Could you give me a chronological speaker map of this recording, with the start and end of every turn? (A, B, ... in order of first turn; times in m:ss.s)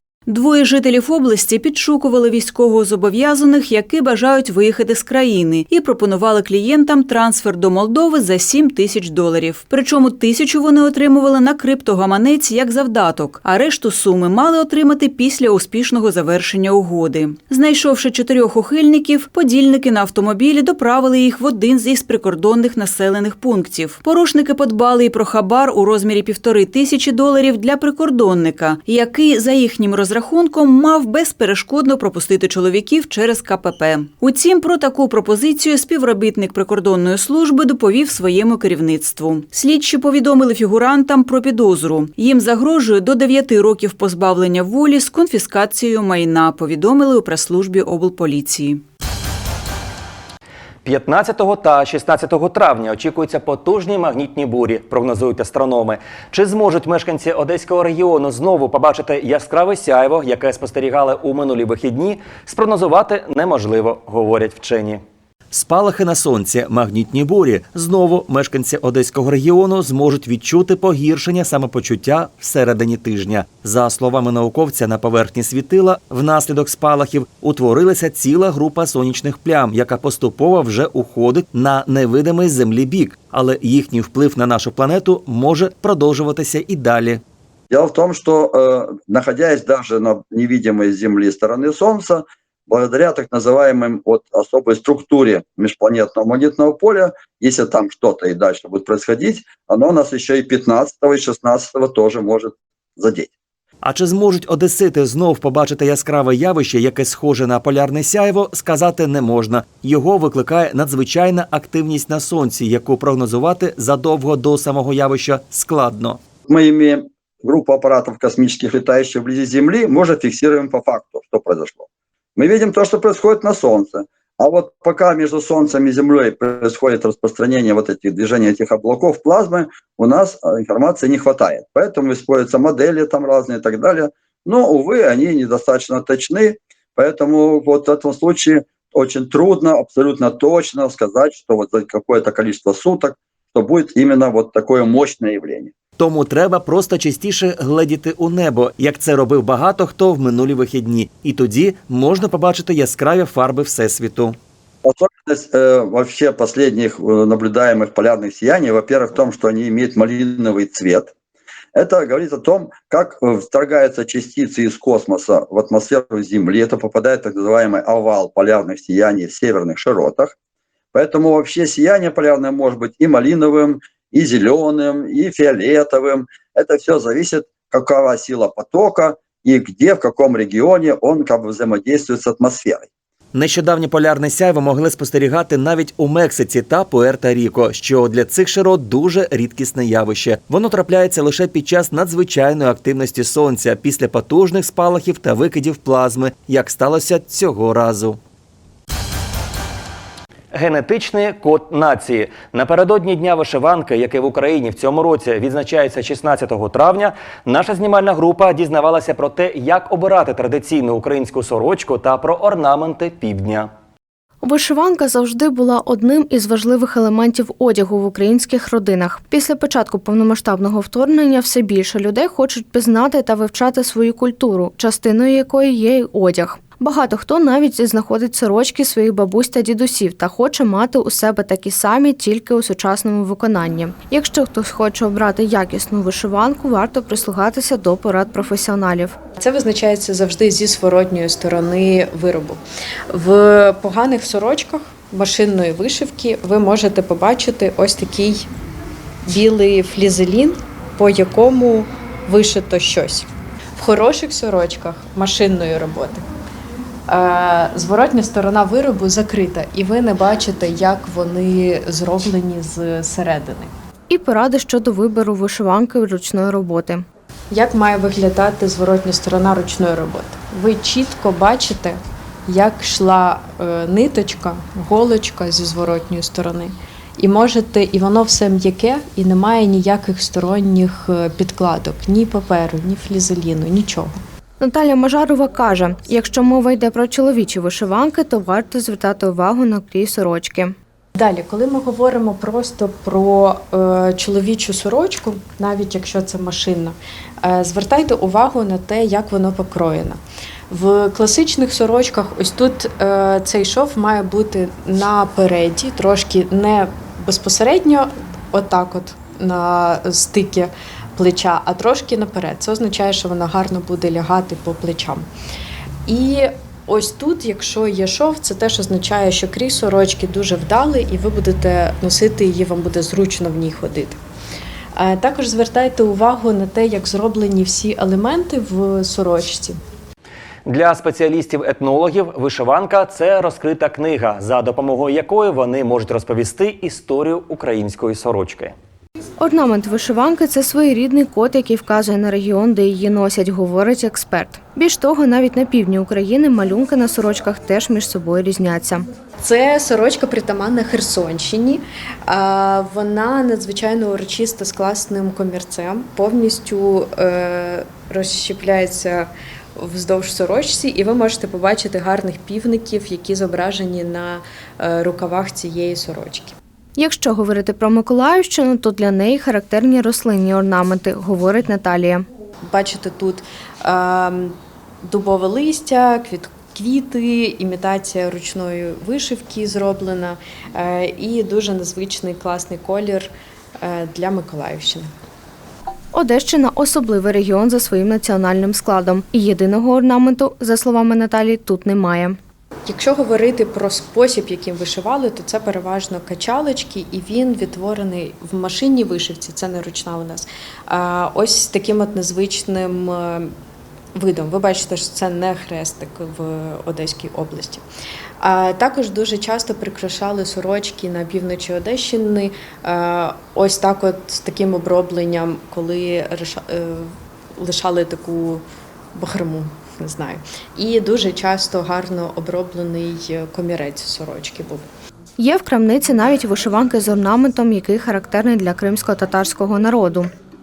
0:00.3-0:48.8 A
0:50.8-1:05.0 B
1:05.5-1:27.2 B
1:27.7-1:43.3 C
1:43.8-1:56.2 B
1:56.5-2:25.7 C
2:26.0-2:34.4 B
2:34.8-2:41.1 C
2:41.7-2:50.3 C
2:50.9-3:02.9 C
3:03.3-3:18.2 B
3:20.5-3:33.7 B
3:34.4-3:59.2 D
3:59.4-4:08.5 E
4:09.3-4:16.2 E
4:17.1-4:23.7 E
4:24.1-4:27.0 D
4:27.5-4:44.2 E
4:44.6-4:50.7 D
4:51.1-5:15.3 E
5:16.0-5:24.2 E
5:24.9-5:29.8 E
5:30.6-5:38.7 B
5:39.4-5:49.0 D
5:49.4-6:06.6 E
6:07.0-6:12.2 D
6:12.6-6:25.1 E
6:26.1-6:32.4 D
6:32.8-6:43.5 E
6:44.1-6:47.8 E
6:48.4-7:04.8 E
7:05.4-7:10.3 D